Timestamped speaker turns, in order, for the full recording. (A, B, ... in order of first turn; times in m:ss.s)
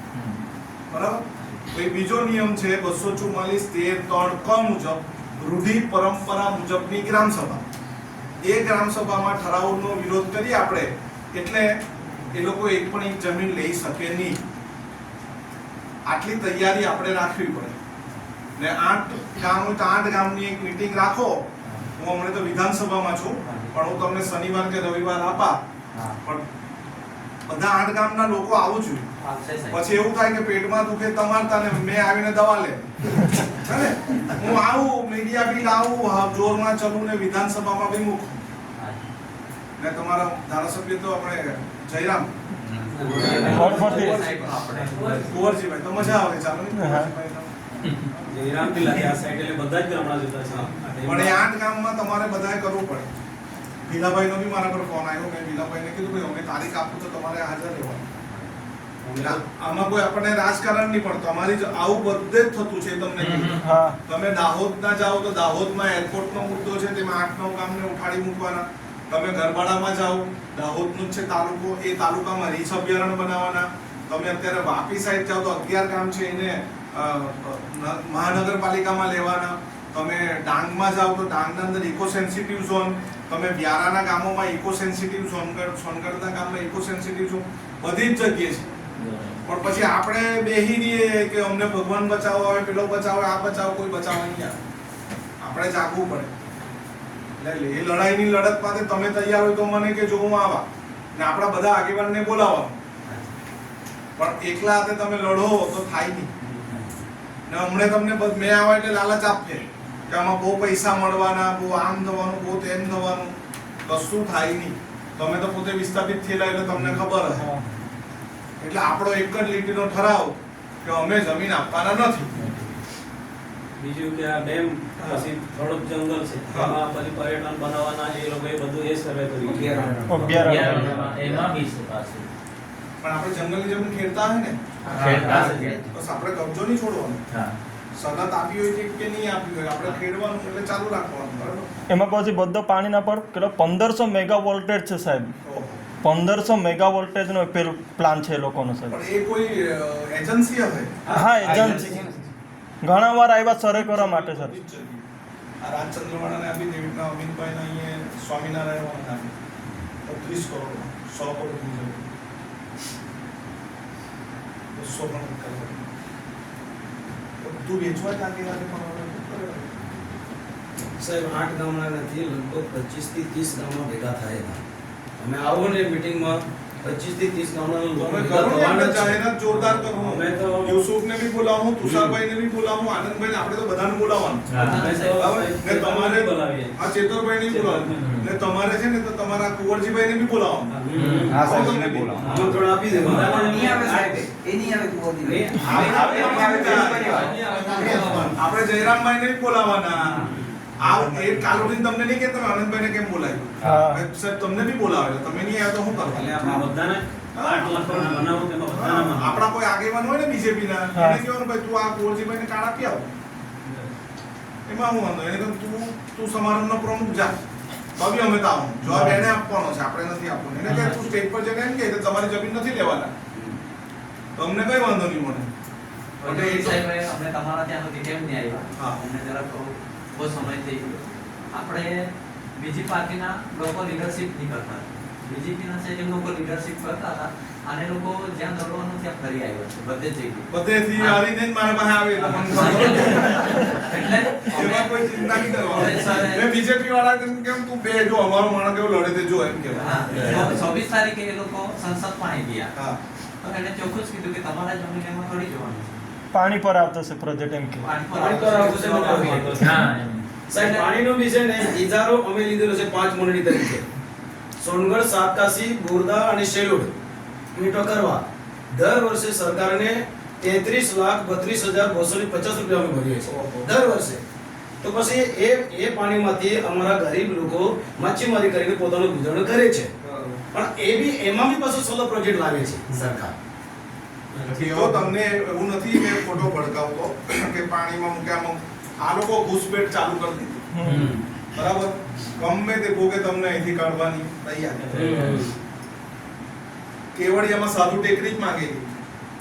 0:00.9-0:07.6 A
0:08.4-0:11.7 A
0:12.3-0:14.4 A
0:16.0-0:17.8 A
0:18.6-0:25.6 A
0:21.6-0:21.9 B
0:23.4-0:23.8 B
0:27.5-0:29.1 A
0:29.2-0:29.8 B
0:29.7-0:38.4 A
0:38.8-0:39.0 B
0:39.8-0:42.3 A
0:42.6-0:45.4 B
0:43.0-0:43.8 C
0:43.0-0:43.7 D
0:43.1-0:47.5 A
0:43.4-0:44.2 E
0:45.0-0:45.3 D
0:46.8-0:47.1 E
0:48.3-0:51.4 D
0:51.0-0:53.1 A
0:53.8-0:58.1 A
0:59.0-0:59.4 C
0:59.2-1:28.7 A
1:03.2-1:03.6 F
1:03.6-1:04.0 E
1:29.0-1:29.4 F
1:29.4-1:34.6 A
1:35.4-1:36.3 A
1:37.4-1:42.8 A
1:43.0-1:43.3 B
1:44.2-1:46.3 A
1:46.6-1:46.8 C
1:47.5-1:53.3 A
1:53.8-1:57.5 A
1:57.4-1:57.6 E
1:58.6-2:02.5 A
2:03.8-2:10.6 D
2:05.0-2:05.3 A
2:06.5-2:06.8 A
2:09.7-2:10.0 G
2:10.1-2:11.2 E
2:10.4-2:12.3 F
2:13.0-2:17.2 A
2:14.9-2:15.8 F
2:15.0-2:15.8 D
2:18.0-2:21.7 A
2:21.9-2:25.3 E
2:25.4-2:25.8 A
2:26.0-2:29.0 E
2:28.9-2:31.9 A
2:31.1-2:32.1 E
2:31.4-2:32.2 G
2:32.8-2:34.6 E
2:33.6-2:35.0 A
2:35.6-2:39.3 A
2:40.0-2:42.0 A
2:44.7-2:45.9 A
2:47.4-2:49.9 A
2:50.9-2:54.6 C
2:55.2-2:59.2 C
2:58.0-3:12.3 A
2:58.1-2:58.5 D
2:59.5-3:00.8 D
3:01.8-3:02.1 C
3:04.5-3:04.9 F
3:04.5-3:05.4 B
3:04.6-3:06.7 D
3:07.5-3:08.1 D
3:08.0-3:08.3 F
3:10.8-3:13.7 C
3:10.9-3:14.2 D
3:11.0-3:11.4 F
3:11.3-3:12.3 G
3:13.2-3:18.3 G
3:15.2-3:16.4 C
3:15.3-3:18.3 D
3:15.6-3:26.6 A
3:17.9-3:18.3 F
3:21.1-3:21.6 G
3:23.6-3:24.0 E
3:26.4-3:29.5 D
3:27.3-3:33.1 A
3:30.9-3:31.2 E
3:34.7-3:37.3 A
3:37.9-3:43.1 A
3:38.8-3:39.3 E
3:40.6-3:41.1 B
3:43.3-3:43.6 C
3:44.4-3:45.5 A
3:46.2-4:01.2 B
3:46.2-3:46.8 A
3:48.7-3:49.0 A
4:00.5-4:03.8 A
4:02.1-4:06.4 B
4:04.4-4:10.4 A
4:09.7-4:12.7 B
4:10.1-4:10.5 F
4:13.4-4:16.0 B
4:16.3-4:17.8 E
4:17.8-4:20.9 B
4:18.1-4:19.8 C
4:19.5-4:20.2 F
4:20.5-4:23.8 C
4:24.6-4:26.9 C
4:27.5-4:34.2 C
4:33.2-4:33.7 A
4:34.8-4:39.9 C
4:40.0-4:40.4 A
4:40.5-4:43.3 C
4:44.3-4:44.7 D
4:44.6-4:50.7 A
4:50.7-4:51.1 E
4:50.8-4:51.2 F
4:51.5-4:55.4 A
4:54.8-4:55.4 D
4:54.9-4:55.5 C
4:57.1-4:58.9 A